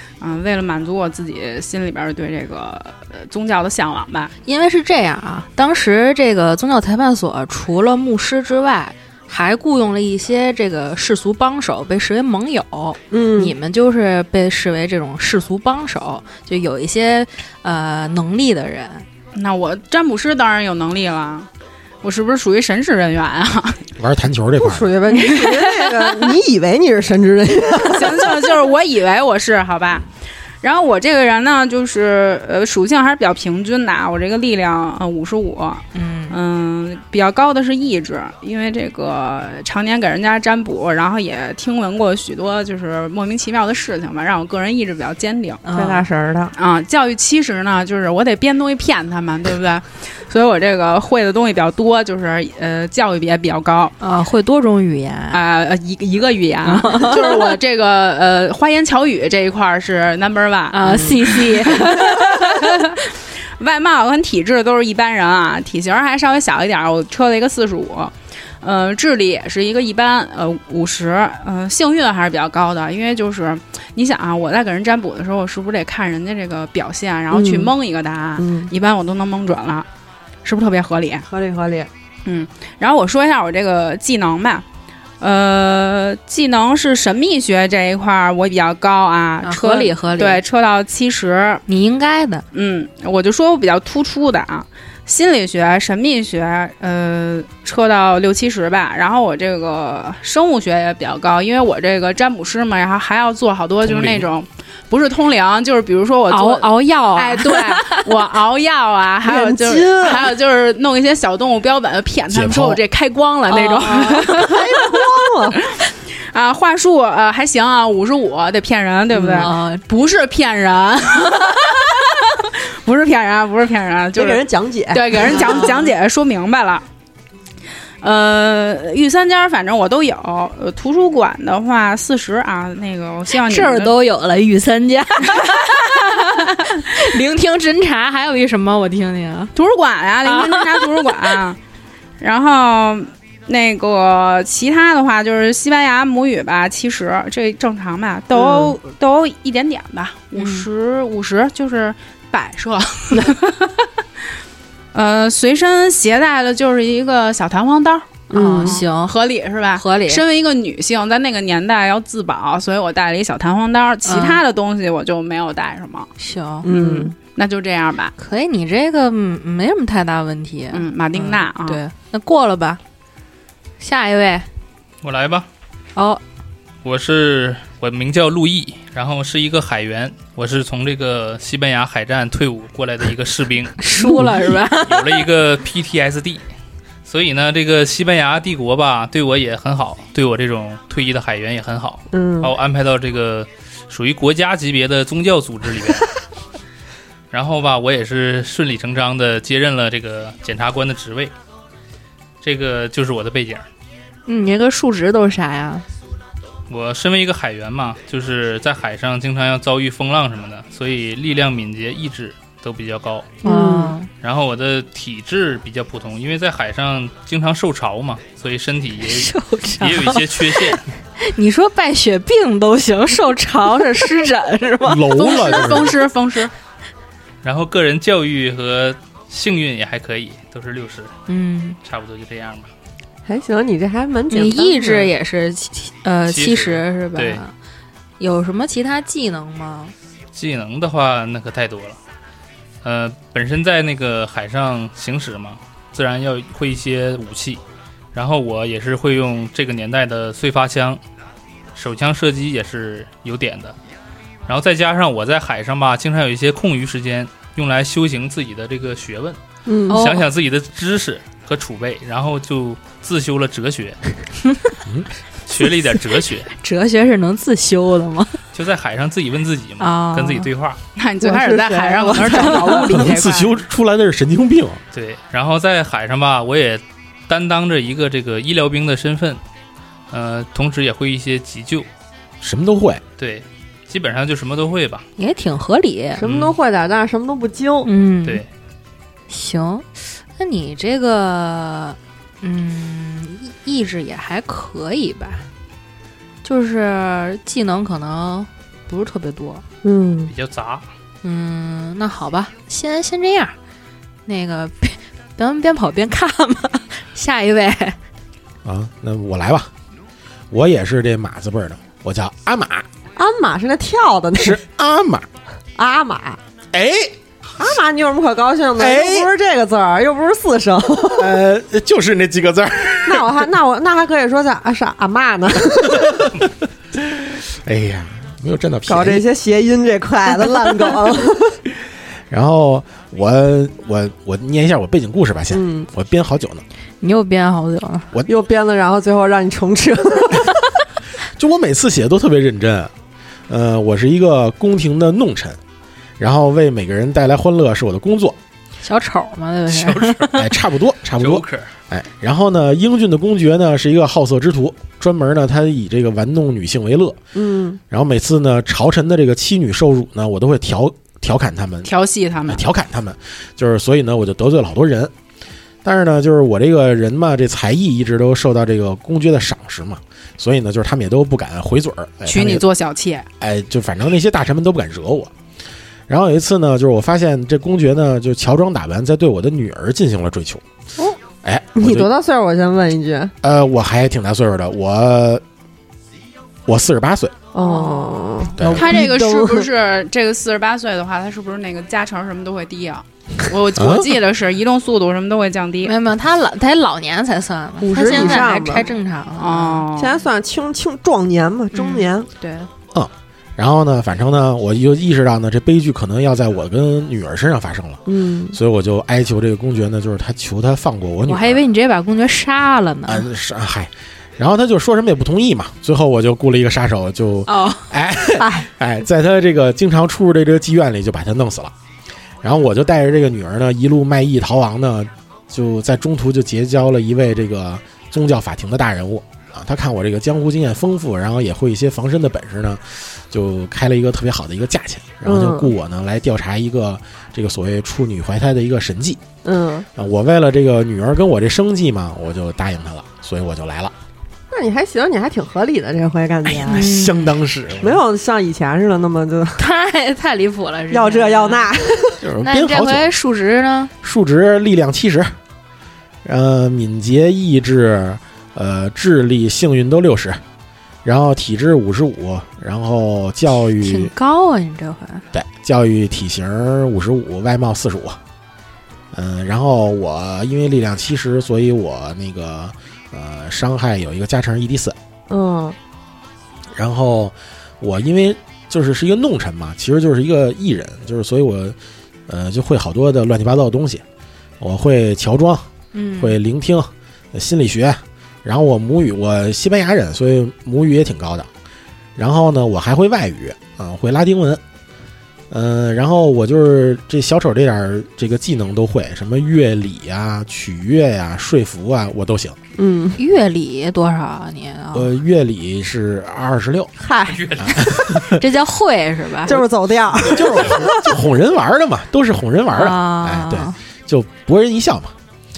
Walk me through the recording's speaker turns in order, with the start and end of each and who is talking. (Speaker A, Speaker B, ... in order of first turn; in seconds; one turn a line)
Speaker A: 0.2-4.3
Speaker B: 4.5-19.0
Speaker C: 13.1-13.5
Speaker A: 19.3-21.5
Speaker A: 22.0-23.8
Speaker D: 24.0-24.9
Speaker C: 24.6-28.6
Speaker A: 25.2-26.3
Speaker A: 27.8-30.1
Speaker A: 30.6-45.6
Speaker B: 35.9-36.4
Speaker B: 45.6-46.0
Speaker C: 45.7-46.5
Speaker A: 46.5-53.9
Speaker B: 54.0-55.4
Speaker A: 55.3-63.0
Speaker B: 56.6-57.5
Speaker B: 60.7-63.0
Speaker A: 63.6-79.9
Speaker C: 77.3-77.7
Speaker C: 78.4-78.7
Speaker A: 80.4-81.3
Speaker C: 81.3-81.9
Speaker A: 82.2-84.6
Speaker A: 85.2-91.6
Speaker B: 89.4-90.4
Speaker B: 91.7-92.4
Speaker A: 92.5-114.7
Speaker E: 103.8-104.2
Speaker B: 106.3-108.2
Speaker C: 109.2-110.3
Speaker D: 112.3-112.8
Speaker B: 113.5-114.6
Speaker C: 114.3-115.6
Speaker A: 115.7-126.8
Speaker C: 119.1-119.5
Speaker B: 119.3-119.8
Speaker C: 124.1-125.7
Speaker B: 125.3-125.9
Speaker A: 128.0-133.9
Speaker B: 133.4-139.5
Speaker A: 135.4-136.2
Speaker A: 139.5-141.6
Speaker B: 140.2-141.4
Speaker A: 142.2-153.9
Speaker C: 148.3-148.7
Speaker B: 150.3-150.7
Speaker A: 154.9-166.1
Speaker C: 158.3-158.8
Speaker B: 158.3-159.1
Speaker B: 159.7-160.2
Speaker B: 164.0-164.4
Speaker B: 166.2-166.7
Speaker C: 166.6-167.1
Speaker A: 166.7-168.1
Speaker B: 168.2-172.8
Speaker A: 170.7-171.8
Speaker B: 173.8-174.4
Speaker E: 175.0-175.5
Speaker B: 175.9-176.2
Speaker E: 176.8-184.3
Speaker B: 183.8-185.2
Speaker E: 184.8-186.4
Speaker E: 187.0-196.1
Speaker C: 192.1-192.5
Speaker E: 197.3-201.3
Speaker E: 202.4-203.7
Speaker B: 204.3-205.8
Speaker E: 206.7-213.4
Speaker C: 213.4-213.9
Speaker B: 213.4-214.1
Speaker E: 214.2-219.3
Speaker B: 219.1-225.1
Speaker E: 219.8-220.9
Speaker D: 224.8-226.0
Speaker A: 225.1-226.5
Speaker E: 227.4-231.1
Speaker B: 231.3-231.8
Speaker E: 231.8-232.7
Speaker C: 233.2-235.1
Speaker B: 234.3-237.5
Speaker E: 236.3-237.4
Speaker B: 238.2-239.9
Speaker E: 240.3-242.0
Speaker E: 242.8-247.6
Speaker E: 248.1-251.0
Speaker E: 251.7-253.7
Speaker E: 254.5-259.4
Speaker C: 259.6-260.0
Speaker B: 259.9-260.3
Speaker E: 259.9-264.0
Speaker E: 265.4-266.5
Speaker B: 266.5-268.4
Speaker E: 268.5-270.8
Speaker B: 269.8-270.5
Speaker A: 270.9-273.6
Speaker C: 271.2-273.1
Speaker D: 272.9-274.8
Speaker E: 274.9-279.4
Speaker E: 280.1-281.9
Speaker D: 282.4-283.0
Speaker E: 283.2-285.1
Speaker B: 285.2-286.2
Speaker C: 286.1-287.9
Speaker E: 286.2-286.6
Speaker B: 287.8-288.4
Speaker B: 289.3-295.4
Speaker B: 296.4-299.6
Speaker C: 299.8-300.3
Speaker E: 300.3-300.9
Speaker B: 301.2-303.5
Speaker B: 304.2-307.9
Speaker D: 308.6-309.7
Speaker D: 310.5-312.9
Speaker C: 313.1-314.6
Speaker D: 314.3-315.3
Speaker C: 315.8-316.4
Speaker D: 316.7-317.1
Speaker C: 317.6-321.3
Speaker D: 318.8-319.3
Speaker D: 321.2-323.5
Speaker C: 323.1-326.3
Speaker D: 325.9-326.3
Speaker D: 326.9-329.2
Speaker C: 328.9-331.6
Speaker D: 332.3-336.6
Speaker C: 335.5-335.9
Speaker B: 337.0-338.1
Speaker C: 338.3-340.7
Speaker D: 341.4-342.9
Speaker D: 343.5-345.6
Speaker D: 346.2-348.4
Speaker B: 348.8-350.5
Speaker E: 349.7-350.3
Speaker D: 350.4-357.2
Speaker E: 351.2-351.7
Speaker C: 357.3-357.8
Speaker D: 357.9-361.9
Speaker A: 361.8-362.7
Speaker D: 362.5-365.1
Speaker D: 365.8-372.6
Speaker A: 372.2-373.2
Speaker D: 373.4-375.3
Speaker D: 376.1-380.6
Speaker D: 381.4-382.1
Speaker C: 381.8-383.3
Speaker D: 383.4-385.4
Speaker D: 386.6-387.3
Speaker C: 387.5-389.7
Speaker B: 387.6-388.5
Speaker D: 388.6-389.0
Speaker A: 388.7-395.9
Speaker D: 393.7-394.1
Speaker B: 395.8-399.9
Speaker C: 397.8-398.9
Speaker A: 398.0-398.4
Speaker A: 399.4-400.2
Speaker C: 399.9-402.3
Speaker B: 401.7-402.7
Speaker D: 402.9-411.6
Speaker C: 408.1-408.6
Speaker B: 411.3-413.3
Speaker D: 413.1-421.7
Speaker B: 417.5-417.9
Speaker C: 418.3-418.7
Speaker D: 422.4-439.2
Speaker C: 435.2-435.7
Speaker C: 439.4-439.9
Speaker D: 439.9-443.9
Speaker C: 444.5-446.9
Speaker D: 446.5-448.0
Speaker B: 446.6-447.4
Speaker C: 447.8-449.6
Speaker B: 449.6-451.7
Speaker C: 450.9-452.2
Speaker D: 452.2-453.1
Speaker B: 452.4-453.9
Speaker D: 454.0-455.3
Speaker D: 456.2-460.4
Speaker D: 461.0-464.1
Speaker B: 463.8-465.2
Speaker D: 465.3-468.2
Speaker D: 469.1-474.9
Speaker C: 475.3-475.8
Speaker D: 476.7-481.8
Speaker D: 482.3-484.0
Speaker D: 484.6-485.6
Speaker B: 485.9-486.4
Speaker D: 486.2-491.5
Speaker D: 492.1-494.6
Speaker D: 495.5-502.6
Speaker C: 502.8-503.2
Speaker B: 503.2-505.1
Speaker D: 504.9-506.9
Speaker C: 507.0-507.5
Speaker E: 507.2-507.9
Speaker D: 507.6-508.4
Speaker B: 508.1-509.6
Speaker C: 509.4-511.1
Speaker D: 510.2-515.1
Speaker B: 512.7-513.8